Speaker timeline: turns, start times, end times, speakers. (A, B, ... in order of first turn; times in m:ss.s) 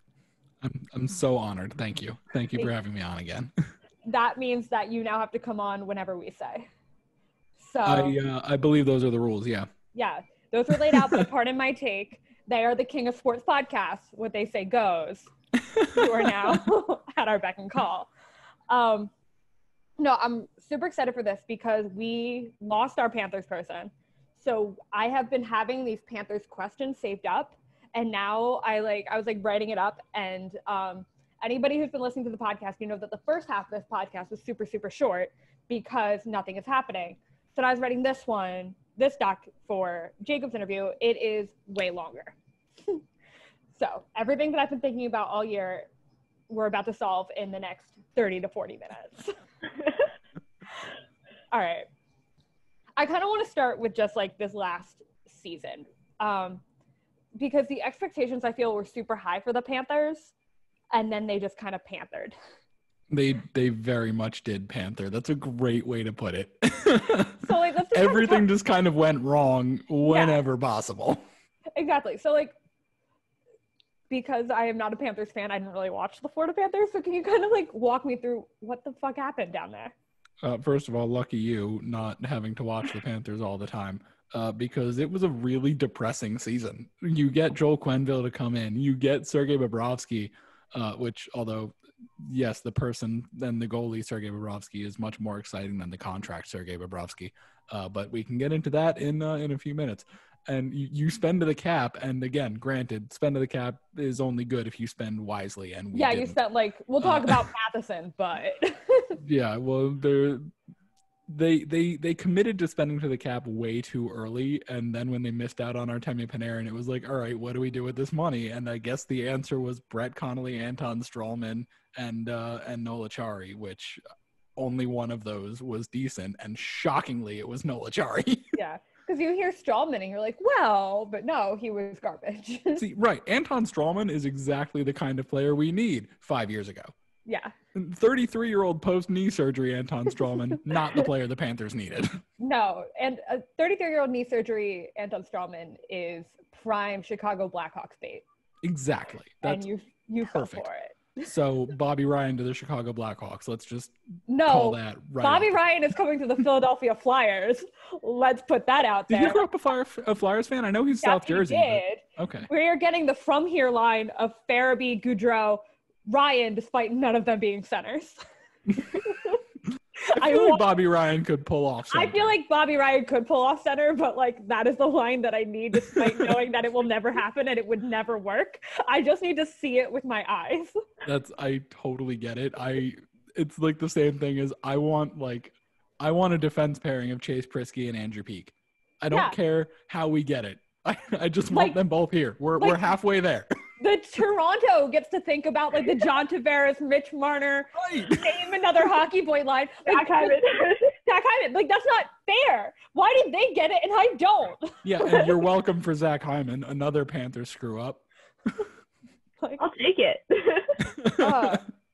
0:00.6-0:03.5 A
0:04.0-0:06.7 B
0:07.6-0:08.2 B
0:07.8-0:09.7 A
0:09.9-0:15.3 B
0:10.8-0:11.2 A
0:15.8-0:16.6 A
0:15.9-0:18.1 B
0:18.7-0:19.1 B
0:20.0-0:43.0 B
0:43.7-0:45.9 B
0:46.5-0:49.3 B
0:51.5-0:51.9 B
0:53.0-0:56.6 B
0:57.4-1:00.3 B
1:00.9-1:02.3 B
1:03.1-1:11.2 A
1:07.4-1:08.5 B
1:10.0-1:10.4 B
1:11.8-1:12.6 B
1:14.1-1:19.9 B
1:20.4-1:46.4 A
1:45.9-1:49.2 B
1:47.0-1:47.4 A
1:49.2-1:50.5 A
1:51.3-2:04.0 A
2:04.6-2:08.5 A
2:08.5-2:12.8 B
2:12.8-2:16.9 A
2:17.2-2:17.5 B
2:17.7-2:22.2 A
2:22.4-2:28.2 B
2:28.6-2:29.7 A
2:29.4-2:31.2 B
2:30.2-2:30.7 A
2:31.2-2:35.5 A
2:34.3-2:39.4 B
2:39.1-2:42.5 A
2:41.0-2:48.2 B
2:48.8-2:49.0 A
2:48.8-2:49.3 B
2:50.0-2:50.7 B
2:50.1-2:52.3 A
2:51.9-3:00.8 B
3:01.0-3:13.5 A
3:09.1-3:09.4 B
3:11.5-3:11.8 B
3:12.6-3:12.8 B
3:13.8-3:25.4 B
3:17.8-3:18.4 A
3:19.8-3:20.9 C
3:24.8-3:28.6 A
3:29.6-3:30.8 C
3:30.8-3:31.6 A
3:31.2-3:31.7 B